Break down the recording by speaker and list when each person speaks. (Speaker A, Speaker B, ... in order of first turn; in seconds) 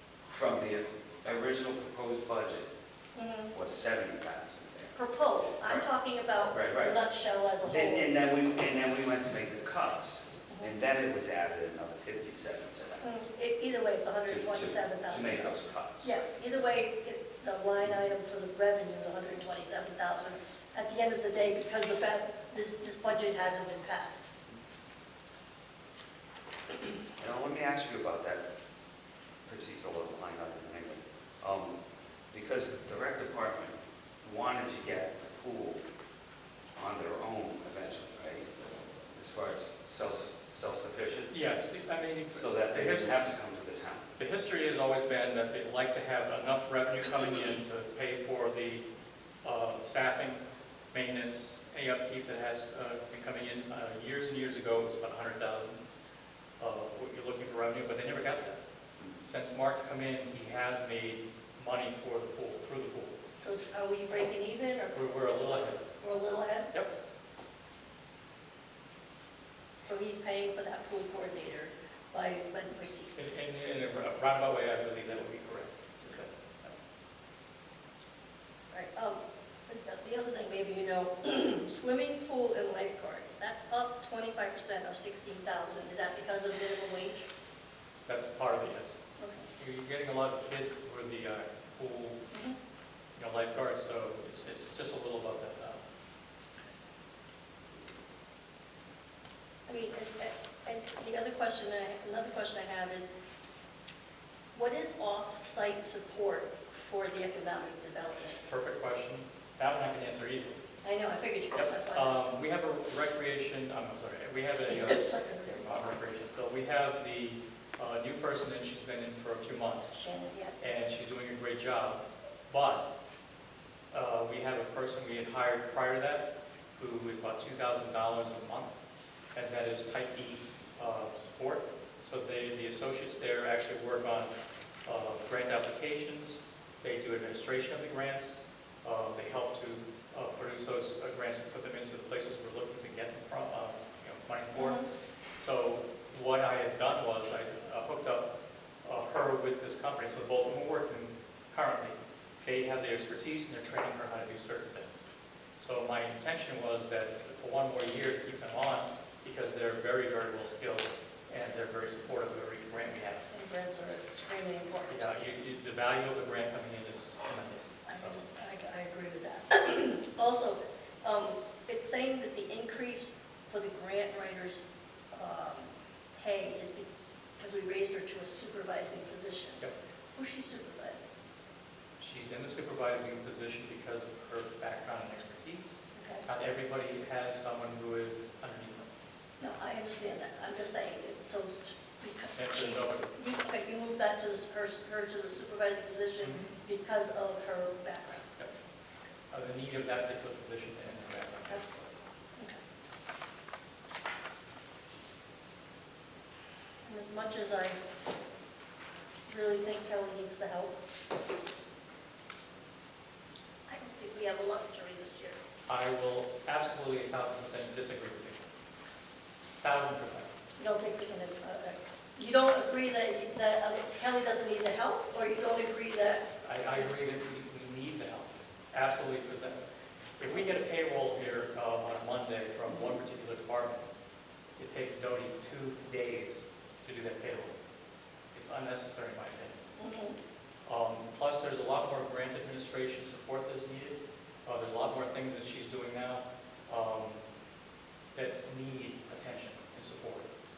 Speaker A: 0.3-2.7, 3.5-4.9, 5.6-5.9, 6.5-7.0, 7.7-13.0, 14.3-16.2, 27.2-28.4, 29.4-31.8, 32.3-35.8, 36.8-38.5, 39.1-41.3, 42.3-44.1
Speaker B: 3.1-3.5, 4.9-8.1, 13.0-24.3, 63.4-65.0, 65.8-66.7, 69.8-73.3, 78.7-87.3, 89.2-89.5, 92.3-92.6, 99.7-103.1, 104.5-108.4, 110.8-112.2, 114.6-115.7, 119.9-120.6, 144.5-144.9, 163.3-165.1, 167.9-179.6, 180.1-181.0, 185.9-186.2, 189.4-198.3, 206.8-207.8, 209.3-210.8, 213.7-215.4, 220.6-226.9, 239.8-240.2
Speaker C: 41.3-43.3, 44.2-48.8, 49.4-50.4, 50.9-55.8, 56.6-58.6, 59.2-63.2, 64.9-65.8, 73.2-76.8, 88.0-89.0, 89.6-92.2, 93.2-95.8, 108.4-110.6, 111.5-120.0, 120.6-122.8, 123.9-128.7, 129.3-134.3, 134.8-144.8, 145.4-148.3, 148.8-155.0, 155.6-163.2, 164.9-168.2, 182.0-188.9, 192.3-193.1, 196.2-196.5, 199.3-201.9, 215.7-218.4, 219.6-220.3, 226.4-229.6, 230.2-233.8, 234.6-237.5, 238.3-239.5, 240.7-247.2, 248.1-250.3